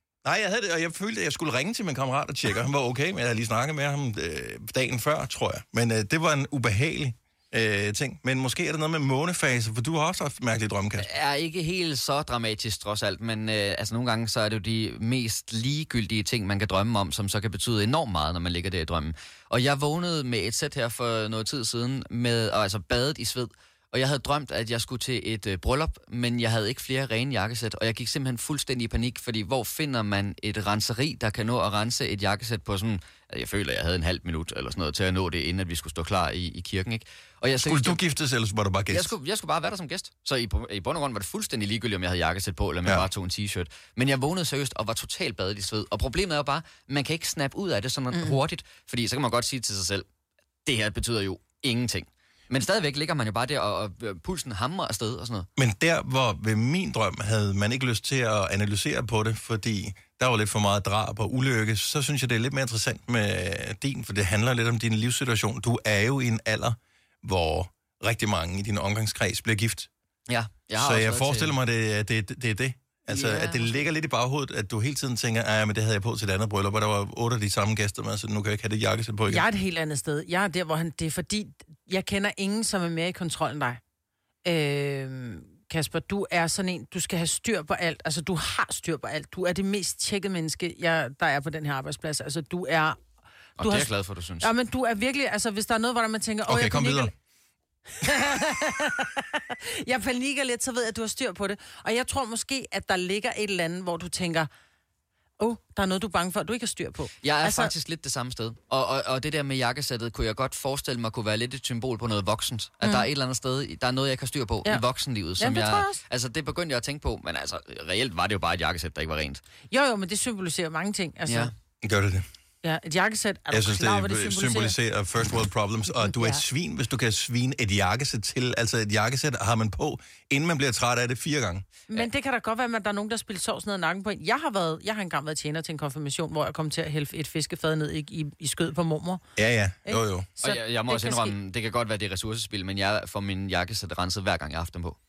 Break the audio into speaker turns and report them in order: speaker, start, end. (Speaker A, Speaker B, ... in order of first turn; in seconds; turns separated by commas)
Speaker A: 0.2-11.1, Speaker B: 11.0-38.0, Speaker A: 37.6-39.1, Speaker B: 38.9-50.1, Speaker B: 50.6-55.5, Speaker A: 55.6-69.9, Speaker B: 70.3-71.6, Speaker A: 70.8-79.5, Speaker C: 73.1-73.8, Speaker C: 79.3-83.8, Speaker C: 84.5-93.0, Speaker C: 93.6-93.9, Speaker B: 93.6-94.5, Speaker C: 94.4-97.1, Speaker A: 96.5-97.1, Speaker C: 98.0-104.5, Speaker C: 105.4-107.7, Speaker B: 107.2-119.4, Speaker C: 115.4-116.0, Speaker C: 119.7-121.5, Speaker B: 121.3-121.5, Speaker A: 121.8-122.2, Speaker C: 122.6-124.8, Speaker A: 123.5-131.7, Speaker C: 125.9-126.4, Speaker C: 131.9-139.2, Speaker A: 139.4-140.3, Speaker C: 139.9-141.3, Speaker B: 140.4-145.0